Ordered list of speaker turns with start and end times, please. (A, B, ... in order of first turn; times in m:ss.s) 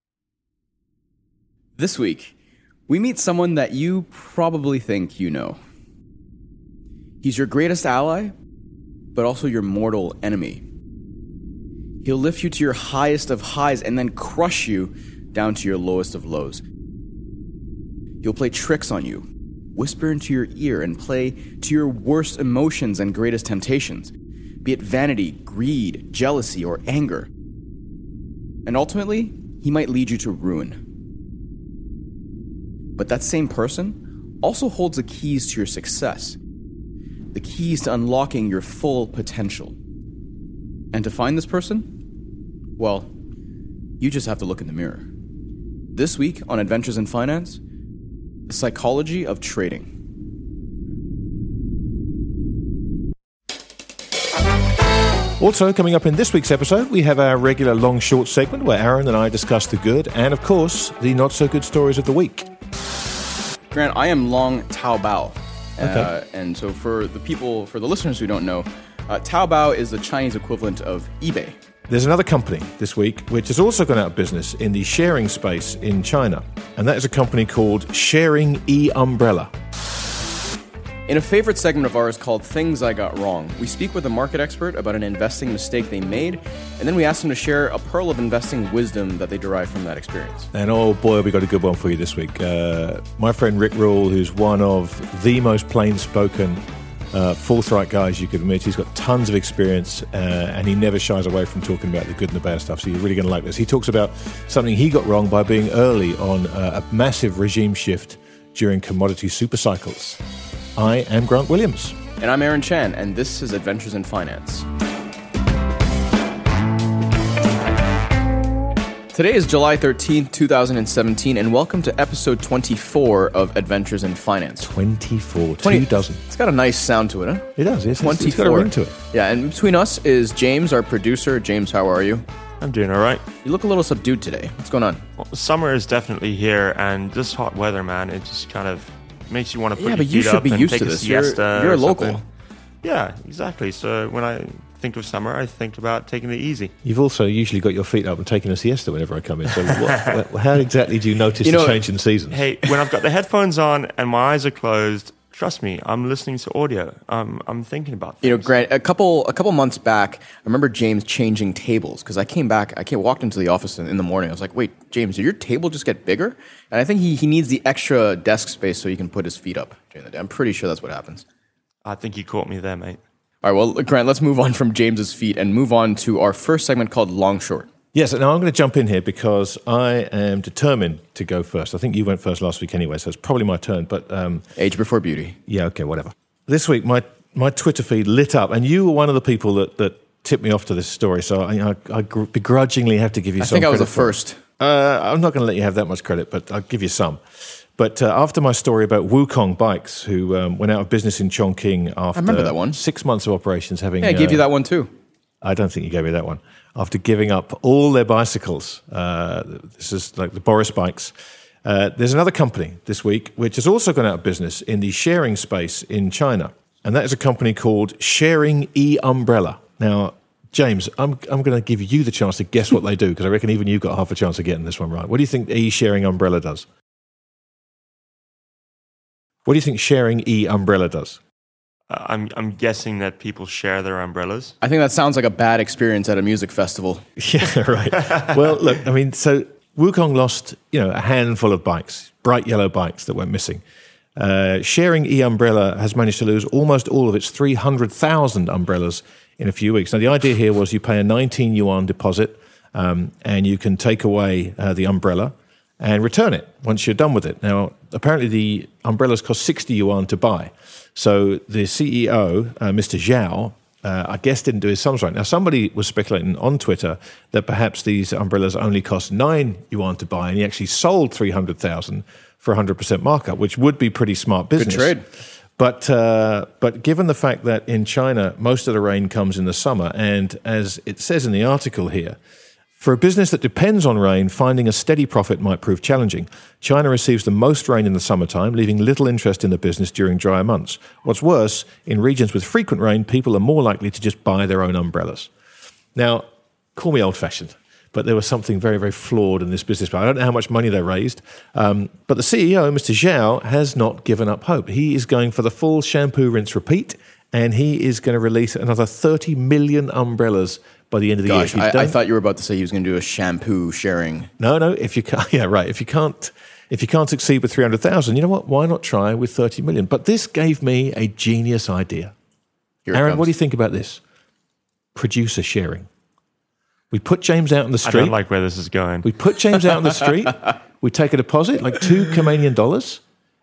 0:01.8-0:02.3 A
0:02.9-0:05.6 A
0:07.2-0:08.3 A
0:09.1-0:10.6 A
0:12.0-0:16.6 A
0:18.2-0:24.1 A
0:24.6-0:27.3 A
0:28.6-0:30.8 A
0:33.0-0:36.4 A
0:37.3-0:39.8 A
0:40.9-0:41.9 A
0:42.8-0:43.1 A
0:44.0-0:45.1 A
0:45.9-0:47.6 A
0:48.5-0:49.9 A
0:55.4-1:02.5 B
1:03.7-1:11.5 A
1:05.8-1:06.1 B
1:11.9-1:19.5 B
1:21.1-1:30.5 A
1:30.5-1:50.2 B
1:50.8-1:52.0 B
1:52.2-1:54.7 A
1:59.1-2:04.7 A
2:04.6-2:06.2 B
2:05.6-2:12.2 A
2:07.6-2:09.0 B
2:12.6-2:13.2 C
2:13.4-2:15.0 A
2:15.2-2:22.2 C
2:19.8-2:22.2 A
2:22.8-2:26.7 C
2:26.8-2:32.5 B
2:31.4-2:31.8 A
2:32.3-2:38.5 C
2:38.2-2:51.2 A
2:51.8-2:53.0 C
2:53.4-2:57.7 A
2:57.9-3:04.4 B
3:04.6-3:05.4 A
3:05.5-3:24.4 B
3:13.4-3:14.4 A
3:22.1-3:22.8 A
3:24.0-3:24.9 A
3:25.4-3:46.6 B
3:49.4-3:51.2 B
3:51.9-3:54.5 C
3:54.6-3:57.0 A
3:57.2-4:03.6 B
4:04.2-4:35.0 B
4:34.6-4:35.0 A
4:35.6-4:42.2 B
4:42.8-4:55.3 B
4:55.9-5:12.0 B
5:11.2-5:14.3 A
5:14.4-5:22.1 B
5:22.8-5:23.3 A
5:22.9-5:24.0 B
5:24.9-5:25.9 B
5:26.9-5:28.1 B
5:27.8-5:29.1 C
5:29.0-5:33.0 B